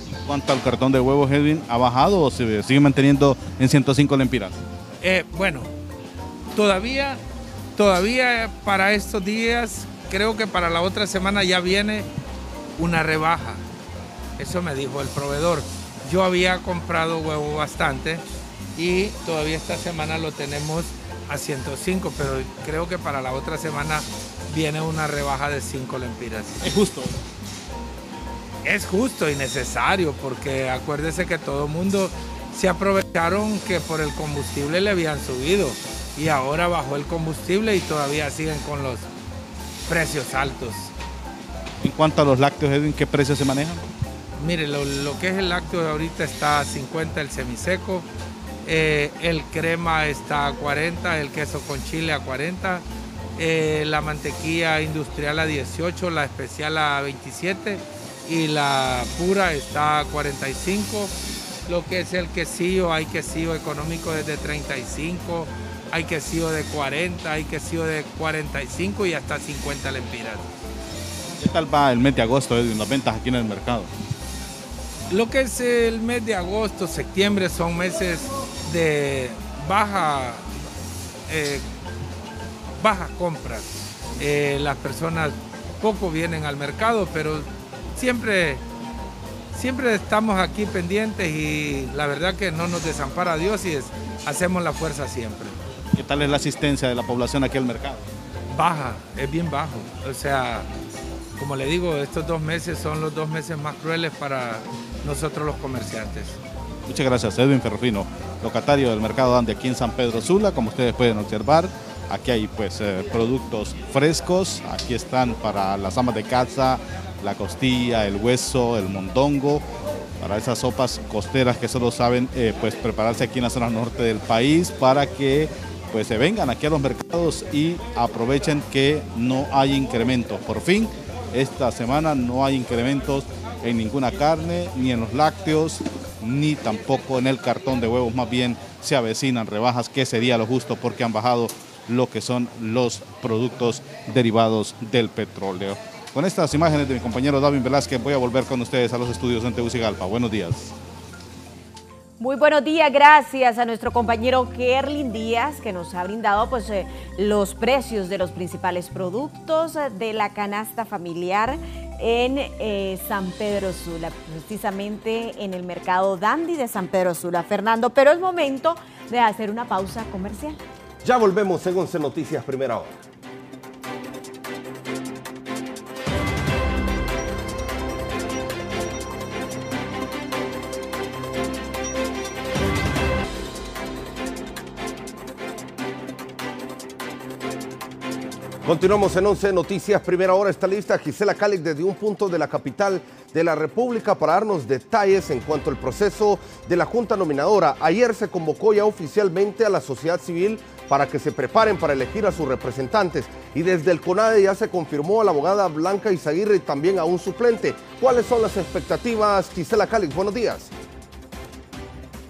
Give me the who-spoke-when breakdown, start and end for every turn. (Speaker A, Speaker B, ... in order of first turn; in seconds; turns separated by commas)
Speaker A: 0.2-4.6, Speaker B: 5.0-5.7, Speaker B: 6.5-7.2, Speaker B: 7.8-12.1, Speaker B: 12.8-13.6, Speaker B: 14.4-18.2, Speaker B: 18.8-26.7, Speaker A: 26.6-27.2, Speaker B: 28.6-39.1, Speaker B: 39.9-40.9, Speaker A: 41.8-43.8, Speaker B: 44.4-48.1, Speaker B: 48.6-52.9, Speaker B: 53.4-61.1, Speaker B: 61.7-70.5, Speaker A: 71.3-73.9, Speaker B: 75.1-80.5, Speaker B: 81.3-81.6, Speaker B: 82.8-88.6, Speaker B: 89.5-95.6, Speaker A: 95.9-98.1, Speaker B: 98.5-100.7, Speaker B: 101.4-106.4, Speaker A: 106.9-119.7, Speaker A: 120.2-150.7, Speaker C: 152.2-170.6, Speaker D: 171.0-173.0, Speaker D: 188.6-210.7